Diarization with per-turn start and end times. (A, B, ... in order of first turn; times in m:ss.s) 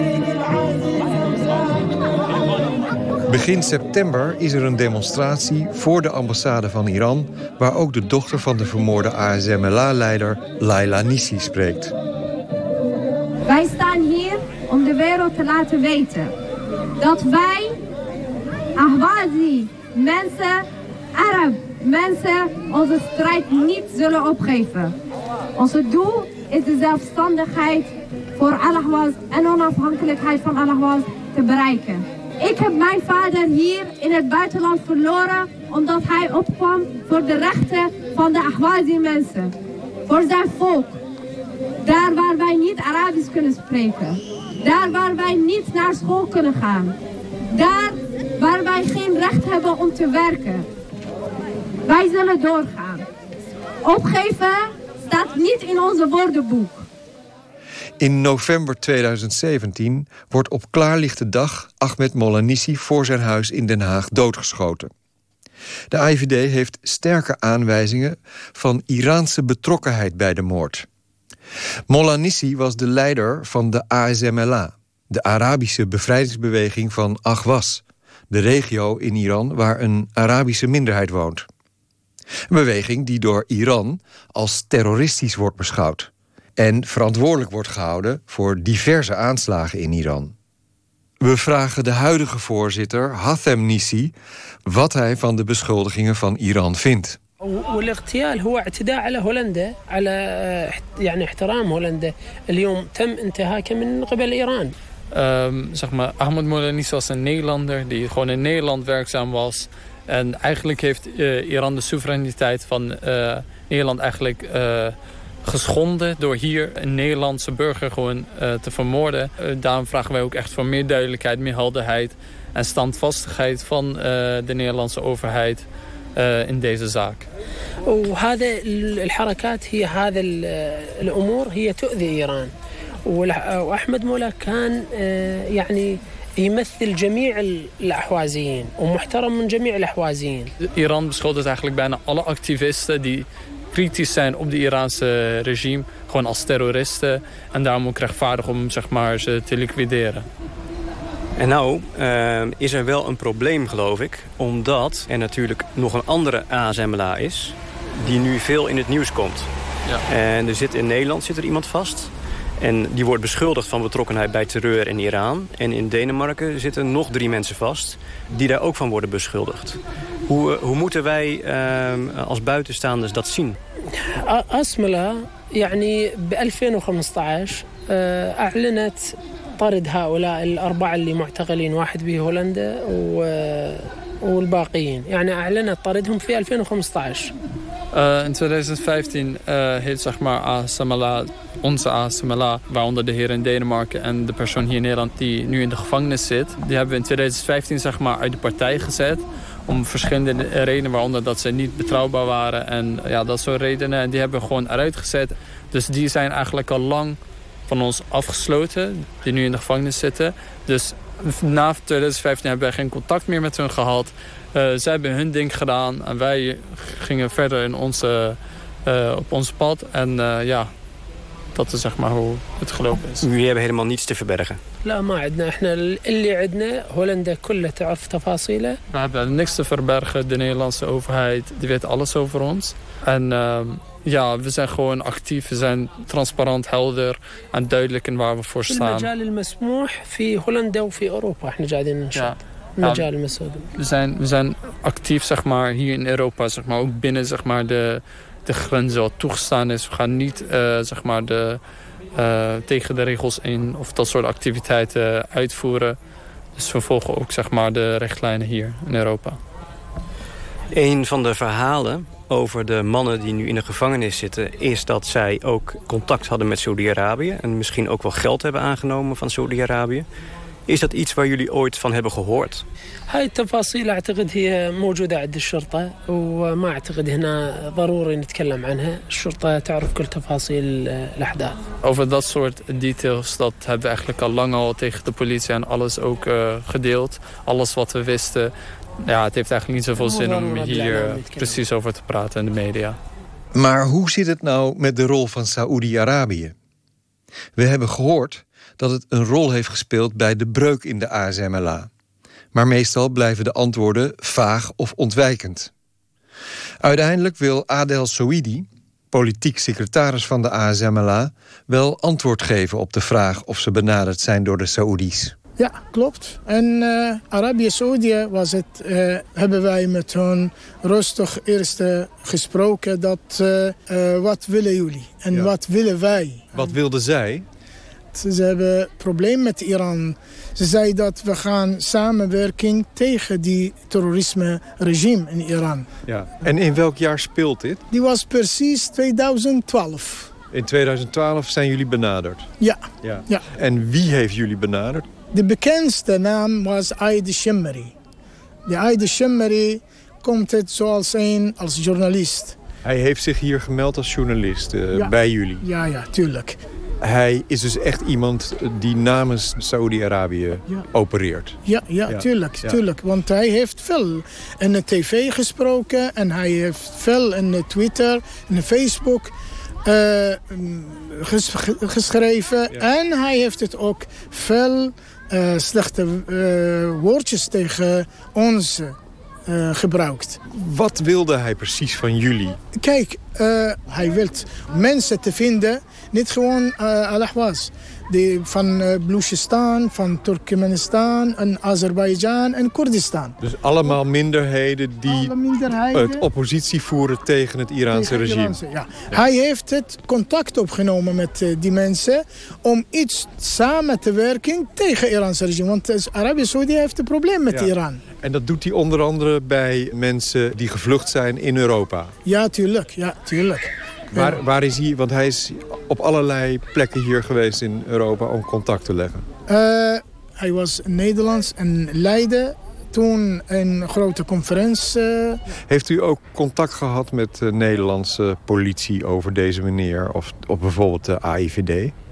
0:03.3-0:11.9 A
0:13.4-0:16.3 B
0:17.0-0:17.8 B
0:18.8-0:24.9 B
0:25.6-0:39.5 B
0:40.1-0:41.0 B
0:41.8-0:46.9 B
0:47.5-0:50.7 B
0:51.9-0:53.0 B
0:53.8-0:56.8 B
0:58.0-1:04.9 A
1:05.9-1:10.9 A
1:11.9-1:21.4 A
1:22.5-1:30.3 A
1:31.2-1:34.1 A
1:34.6-1:37.2 A
1:37.4-1:44.7 C
1:45.1-2:07.3 D
2:07.9-2:12.5 C
2:13.0-2:20.5 C
2:20.6-2:30.3 D
2:31.4-2:39.5 E
2:40.1-2:53.6 E
2:54.0-3:07.3 C
3:07.9-3:40.7 D
3:41.5-3:43.2 D
3:43.2-3:44.6 E
3:44.8-3:48.8 C
3:48.9-3:59.1 D
3:58.6-4:03.7 C
4:02.1-4:03.1 D
4:03.8-4:11.6 D
4:12.1-4:16.0 D
4:16.6-4:19.4 D
4:20.7-4:30.0 E
4:30.7-4:32.6 E
4:33.1-4:41.6 C
4:41.8-4:48.5 D
4:49.0-4:53.0 D
4:50.0-4:51.6 C
4:53.5-4:56.5 A
4:57.6-5:01.9 A
5:02.5-5:05.7 A
5:06.8-5:15.4 A
5:15.6-5:26.7 F
5:26.5-5:27.4 A
5:28.1-5:35.9 F
5:36.1-5:37.8 A
5:37.9-5:40.3 F
5:40.5-5:42.5 A
5:42.6-5:43.4 F
5:43.0-5:45.1 A
5:45.3-5:47.9 F
5:48.7-5:52.6 F
5:52.8-5:55.6 A
5:54.9-5:56.6 F
5:57.0-6:02.8 A
6:01.6-6:09.3 F
6:09.8-6:19.0 F
6:19.5-6:20.4 F
6:20.5-6:22.6 A
6:22.8-6:33.4 F
6:33.4-6:35.3 A
6:35.0-6:36.2 F
6:35.9-6:38.6 A
6:37.9-6:48.0 F
6:47.5-6:52.1 A
6:52.2-6:54.4 F
6:54.1-6:59.2 A
6:59.5-7:05.4 F
7:05.7-7:11.9 A